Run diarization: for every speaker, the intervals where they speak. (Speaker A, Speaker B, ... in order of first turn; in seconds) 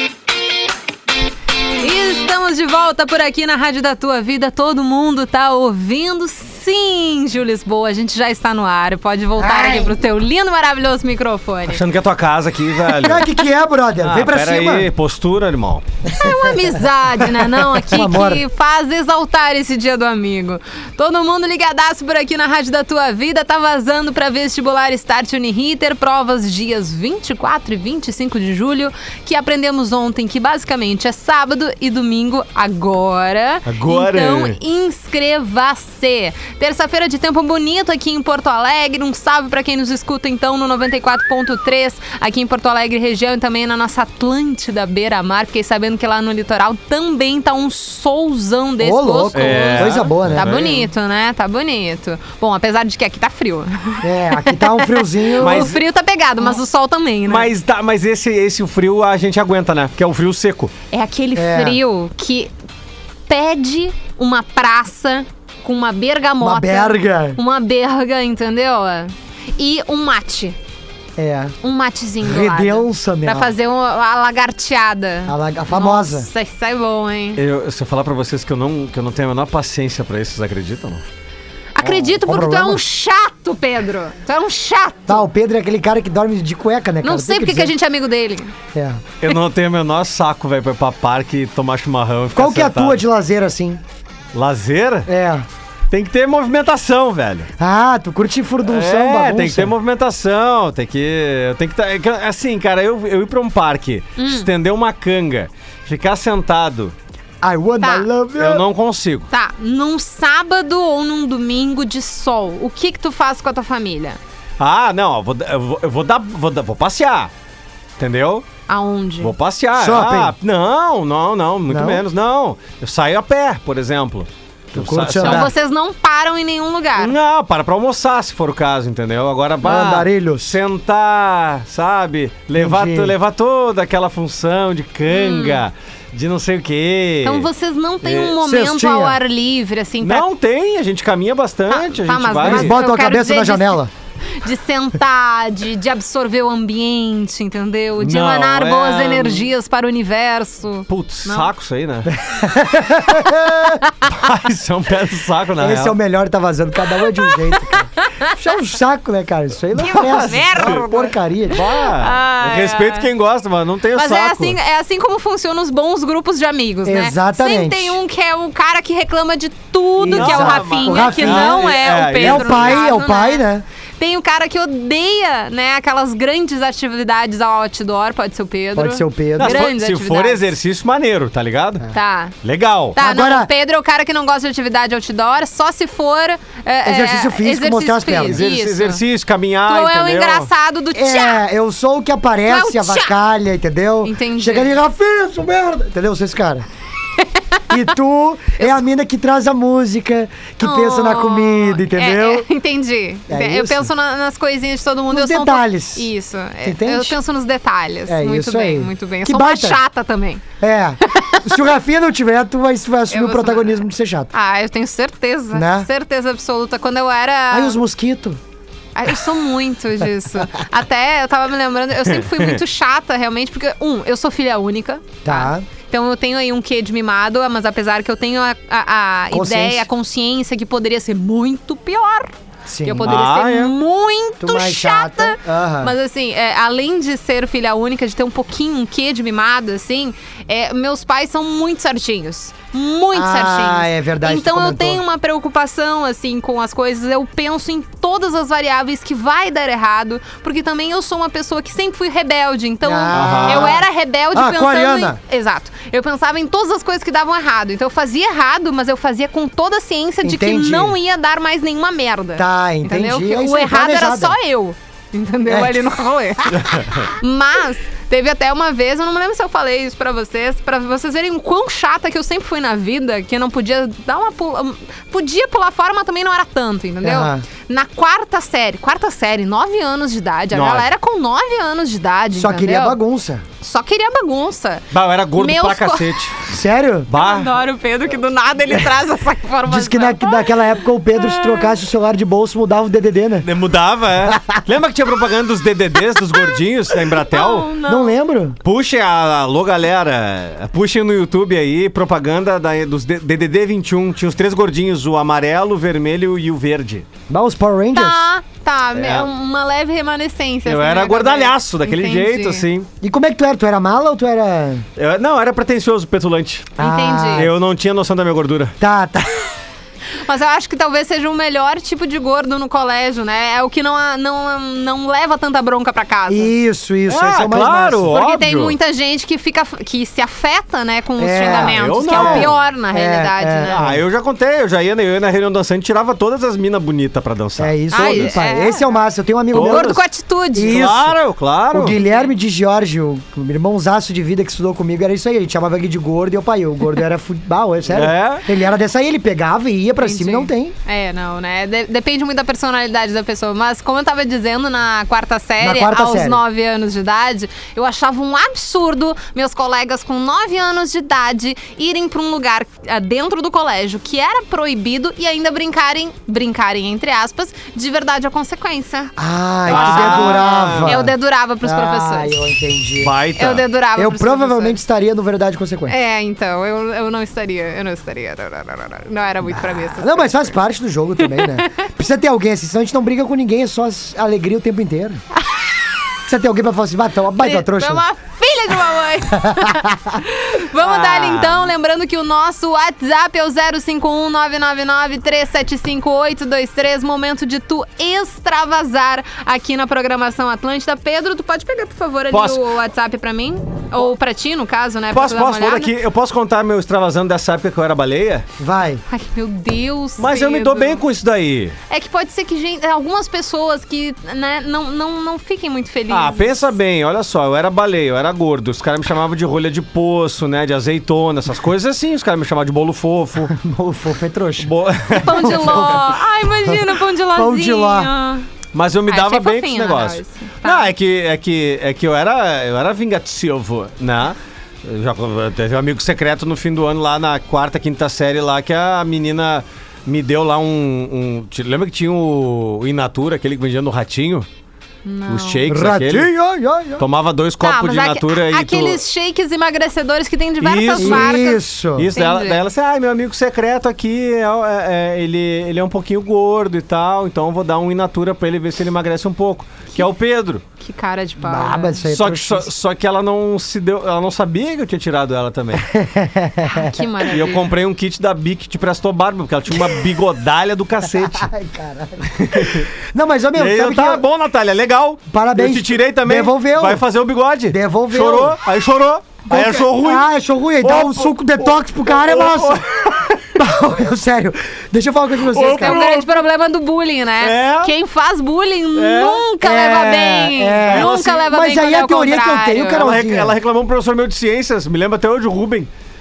Speaker A: 1.8-11.8, 16.1-57.5, 60.9-62.5, 63.3-70.5, 71.6-77.4, 81.7-85.2, 87.0-88.5, 104.2-104.5, 107.8-108.1, 109.3-114.2, 118.7-119.3, 125.2-127.1, 135.1-135.6, 137.2-140.2, 141.7-143.8, 144.3-151.5, 157.2-158.3, 159.8-163.1, 163.9-173.4, 174.0-180.4, 181.9-182.3, 182.9-189.0, 189.7-191.4, 192.5-193.1, 194.0-194.7, 200.6-210.4, 211.0-211.5, 213.1-217.8, 218.9-232.3, 232.8-283.0, 283.6-286.1, 287.1-291.8, 297.3-298.1, 307.9-312.6, 316.8-317.5, 320.2-326.5, 328.1-333.8, 337.9-339.0, 339.5-340.9, 342.0-342.3, 350.0-369.1, 369.7-372.4, 373.4-374.8, 375.9-380.6, 381.2-381.9, 387.4-405.9, 409.1-411.0, 411.9-416.6, 425.2-428.4, 429.1-430.9, 445.0-445.6, 447.6-451.6, 452.1-452.6, 460.8-462.0, 466.6-467.7, 485.7-493.1
Speaker B: 9.4-9.9, 12.9-14.9, 16.1-16.7, 17.3-18.4, 48.8-50.6, 54.0-55.7, 61.3-61.8, 66.4-67.4, 71.2-71.5, 72.2-73.5, 75.3-76.3, 81.8-82.8, 85.1-87.7, 88.7-89.0, 92.3-93.8, 95.1-95.5, 97.6-99.7, 107.4-108.6, 119.8-120.3, 121.7-122.0, 124.7-125.5, 129.6-130.5, 132.6-133.1, 138.3-139.2, 142.4-143.9, 152.1-153.8, 155.6-161.7, 166.8-168.0, 170.0-173.6, 178.7-179.6, 183.0-183.5, 186.8-188.4, 190.9-196.7, 197.7-202.5, 203.3-203.9, 205.1-206.1, 206.6-207.2, 208.1-209.8, 210.6-214.3, 215.5-215.9, 217.5-218.4, 225.2-225.7, 229.3-229.9, 232.7-233.2, 234.4-235.9, 243.1-245.0, 252.8-255.2, 260.2-261.0, 262.4-264.4, 265.5-265.9, 277.0-277.4, 282.3-283.4, 286.5-287.1, 289.6-293.5, 294.2-294.6, 297.8-298.6, 307.3-308.3, 313.0-314.9, 316.8-317.6, 318.8-319.5, 326.3-328.1, 331.2-334.0, 337.6-340.0, 340.5-341.2, 341.7-350.7, 355.6-356.4, 369.2-373.1, 373.9-375.9, 379.5-385.2, 386.2-388.0, 389.3-390.2, 408.6-409.0, 423.5-428.1, 445.7-447.0, 450.9-452.1, 461.4-462.7, 465.8-467.1, 471.1-474.2, 475.3-477.1, 477.7-478.6, 479.5-482.8, 483.5-486.1, 489.6-493.6
Speaker C: 11.7-13.2, 14.0-15.8, 33.6-34.6, 49.3-50.9, 55.4-55.8, 57.2-60.7, 77.4-81.0, 89.2-93.0, 94.3-95.1, 95.9-97.5, 98.7-106.9, 108.4-109.3, 114.6-117.3, 118.0-118.4, 119.2-125.5, 127.0-137.5, 138.0-138.3, 140.0-142.7, 148.0-149.5, 150.9-152.1, 154.1-155.9, 159.8-160.8, 161.5-164.6, 170.1-172.8, 179.4-181.8, 182.4-183.0, 188.2-190.5, 222.1-222.6, 233.0-233.7, 253.1-253.8, 280.5-280.9, 284.9-286.4, 287.1-287.6, 293.4-297.7, 298.6-307.1, 308.9-309.3, 310.6-312.9, 315.0-316.7, 317.3-318.8, 327.1-328.8, 331.4-332.6, 333.7-338.3, 339.5-340.0, 340.6-342.0, 347.9-348.4, 369.6-371.1, 373.0-373.6, 390.8-391.7, 402.3-402.6, 405.1-408.4, 410.2-411.8, 416.1-423.5, 424.6-426.0, 428.7-444.5, 445.3-446.3, 447.0-449.0, 450.6-460.6, 462.1-465.9, 467.3-471.5, 472.4-472.9, 473.6-480.3, 480.8-483.5, 485.5-486.4, 487.4-487.9, 488.9-489.5, 490.9-491.4, 492.9-495.9